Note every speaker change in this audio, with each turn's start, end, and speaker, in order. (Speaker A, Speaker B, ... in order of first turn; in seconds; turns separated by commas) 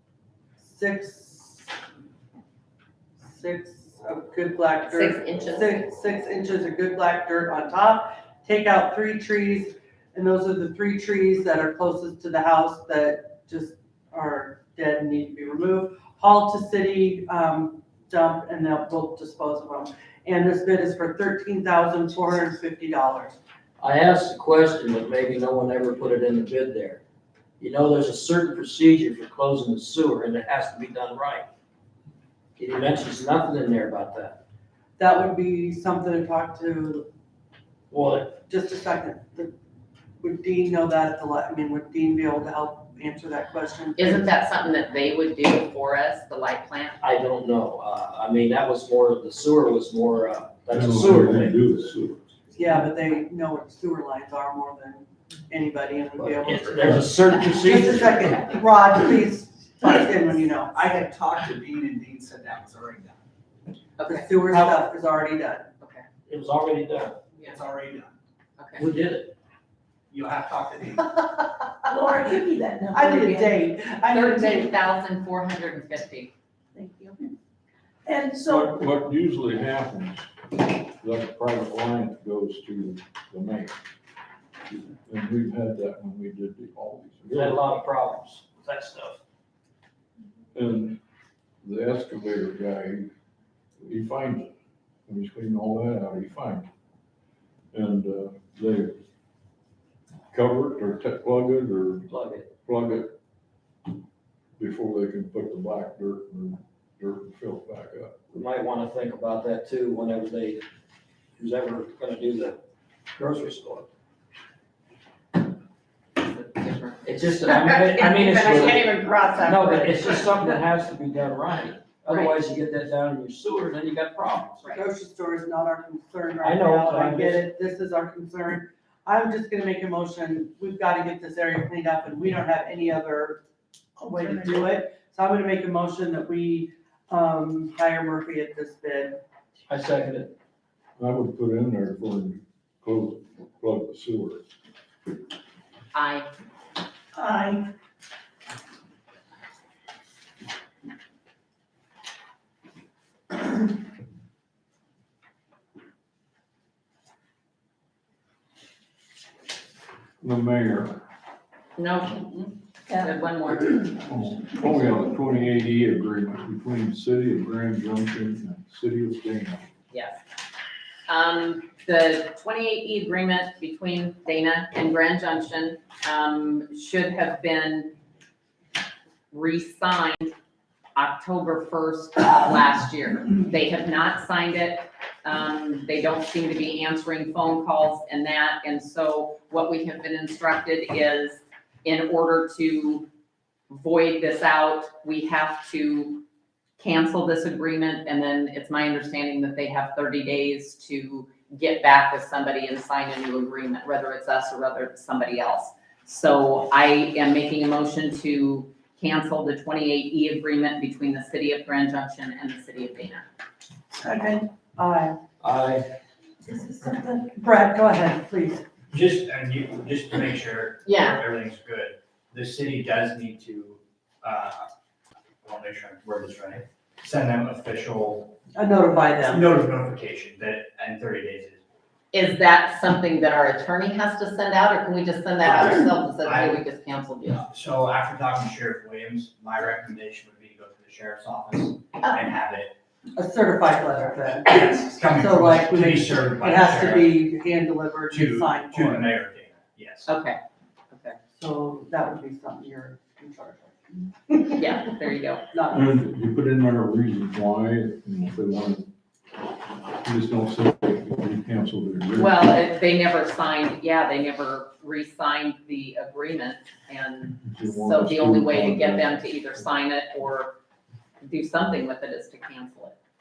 Speaker A: 0.6-1.7, Speaker A: 3.2-23.4, Speaker B: 4.9-5.7, Speaker C: 23.8-27.0, Speaker C: 27.6-31.5, Speaker C: 32.6-34.4, Speaker A: 35.0-37.1, Speaker C: 37.9-38.4, Speaker A: 38.4-39.5, Speaker A: 40.2-44.3, Speaker B: 44.0-47.0, Speaker C: 47.0-51.6, Speaker D: 50.7-52.3, Speaker A: 52.5-60.8, Speaker C: 56.1-58.5, Speaker E: 60.8-63.0, Speaker B: 64.0-64.6, Speaker A: 64.0-65.7, Speaker B: 65.8-66.0, Speaker C: 66.3-67.3, Speaker E: 67.5-67.8, Speaker F: 67.6-68.0, Speaker B: 68.6-68.9, Speaker C: 68.8-69.3, Speaker F: 70.1-70.7, Speaker G: 71.8-73.6, Speaker A: 72.9-74.7, Speaker B: 73.3-73.5, Speaker B: 74.1-76.3, Speaker G: 76.7-77.3, Speaker G: 78.0-78.7, Speaker D: 78.5-83.8, Speaker D: 84.7-87.6, Speaker C: 87.3-89.2, Speaker D: 90.5-91.0, Speaker D: 91.6-93.1, Speaker D: 93.8-94.5, Speaker D: 95.1-96.7, Speaker D: 97.7-99.0, Speaker D: 100.3-103.2, Speaker C: 102.1-102.5, Speaker D: 104.6-108.1, Speaker C: 108.3-110.6, Speaker C: 111.3-112.6, Speaker C: 113.2-113.9, Speaker B: 116.2-120.1, Speaker C: 117.0-124.6, Speaker B: 122.1-122.3, Speaker B: 124.6-124.8, Speaker A: 124.7-133.4, Speaker C: 126.4-127.5, Speaker G: 134.0-134.8, Speaker A: 134.1-139.2, Speaker C: 139.7-140.3, Speaker D: 141.0-144.4, Speaker B: 145.9-146.3, Speaker G: 147.2-147.6, Speaker D: 160.2-161.0, Speaker B: 161.8-163.9, Speaker D: 163.9-169.7, Speaker B: 169.9-170.2, Speaker B: 171.1-177.9, Speaker B: 179.3-180.3, Speaker B: 180.9-193.1, Speaker B: 193.7-196.2, Speaker B: 196.8-213.2, Speaker A: 214.0-215.2, Speaker C: 215.4-215.9, Speaker A: 216.5-218.6, Speaker F: 218.9-224.7, Speaker B: 220.8-221.2, Speaker F: 225.4-228.3, Speaker A: 228.5-229.5, Speaker F: 229.2-231.6, Speaker B: 232.1-237.4, Speaker F: 235.4-236.7, Speaker F: 237.4-242.7, Speaker A: 243.2-249.2, Speaker F: 244.4-247.2, Speaker F: 248.1-250.1, Speaker B: 250.1-250.4, Speaker B: 250.9-251.2, Speaker A: 251.4-254.4, Speaker B: 254.6-255.4, Speaker A: 255.5-255.9, Speaker D: 255.7-258.9, Speaker D: 260.0-262.5, Speaker B: 262.2-270.6, Speaker D: 267.4-269.2, Speaker B: 271.2-272.9